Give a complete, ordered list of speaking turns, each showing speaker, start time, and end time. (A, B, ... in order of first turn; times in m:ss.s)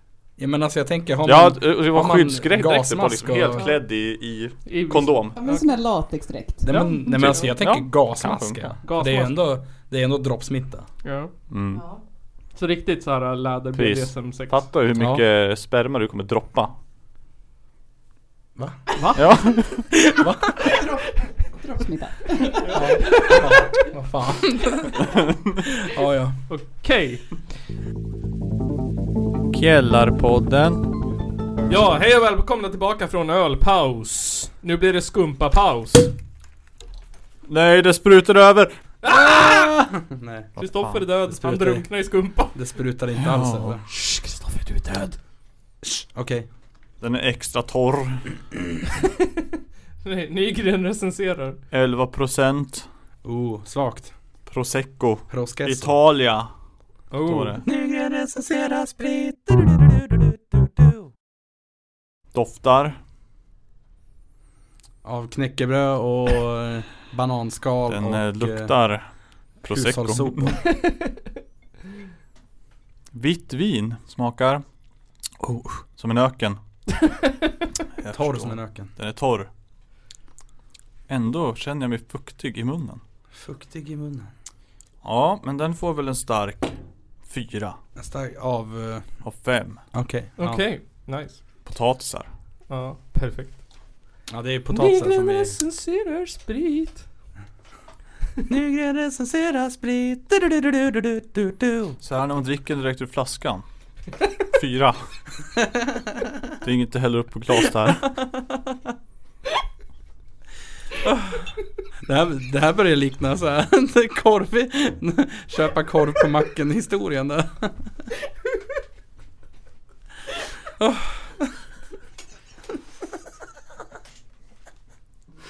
0:00.4-0:03.7 A
0:01.2-0:05.4 B
0:04.6-0:05.7 C
0:05.4-0:06.6 D
0:06.6-0:10.8 A
0:06.6-0:07.5 C
0:07.2-0:08.8 B
0:08.8-0:09.4 C
0:11.0-0:11.3 C
0:11.5-0:11.9 B
0:12.5-0:14.6 C
0:13.7-0:16.7 B
0:14.9-0:15.2 A
0:18.6-0:18.8 A
0:18.9-0:19.7 C
0:19.2-0:19.9 B
0:19.9-0:20.7 A
0:21.6-0:22.7 D
0:22.5-0:23.3 C
0:22.7-0:26.4 A
0:26.5-0:27.4 C
0:29.5-0:30.9 B
0:31.7-0:36.1 C
0:37.4-0:38.7 B
0:39.0-0:39.7 C
0:39.9-0:40.6 A
0:40.6-0:41.1 B
0:40.6-0:42.5 C
0:41.3-0:41.9 A
0:42.5-0:43.8 A
0:43.2-0:43.7 B
0:43.9-0:45.2 C
0:45.8-0:46.5 A
0:47.0-0:48.2 B
0:50.0-0:51.6 C
0:51.7-0:52.8 B
0:53.2-0:54.1 A
0:54.4-0:56.5 B
0:55.3-0:56.0 A
0:57.1-0:57.6 C
0:57.2-0:57.6 B
0:57.6-1:01.0 A
1:02.3-1:03.0 B
1:05.0-1:08.7 A
1:07.9-1:09.1 B
1:09.6-1:10.6 B
1:09.6-1:10.6 A
1:13.1-1:14.6 B
1:15.4-1:15.8 A
1:16.0-1:16.6 B
1:18.0-1:19.5 B
1:18.1-1:18.9 A
1:21.1-1:23.0 B
1:23.3-1:24.3 A
1:25.0-1:27.8 B
1:28.0-1:29.0 A
1:29.2-1:29.8 B
1:29.9-1:30.6 A
1:30.4-1:31.4 C
1:31.6-1:32.3 B
1:32.7-1:33.6 C
1:34.3-1:35.6 A
1:34.7-1:37.0 C
1:38.5-1:42.0 A
1:42.0-1:43.6 B
1:44.5-1:45.0 B
1:46.6-1:48.2 B
1:51.0-1:51.4 A
1:52.0-1:57.8 A
2:00.8-2:01.3 A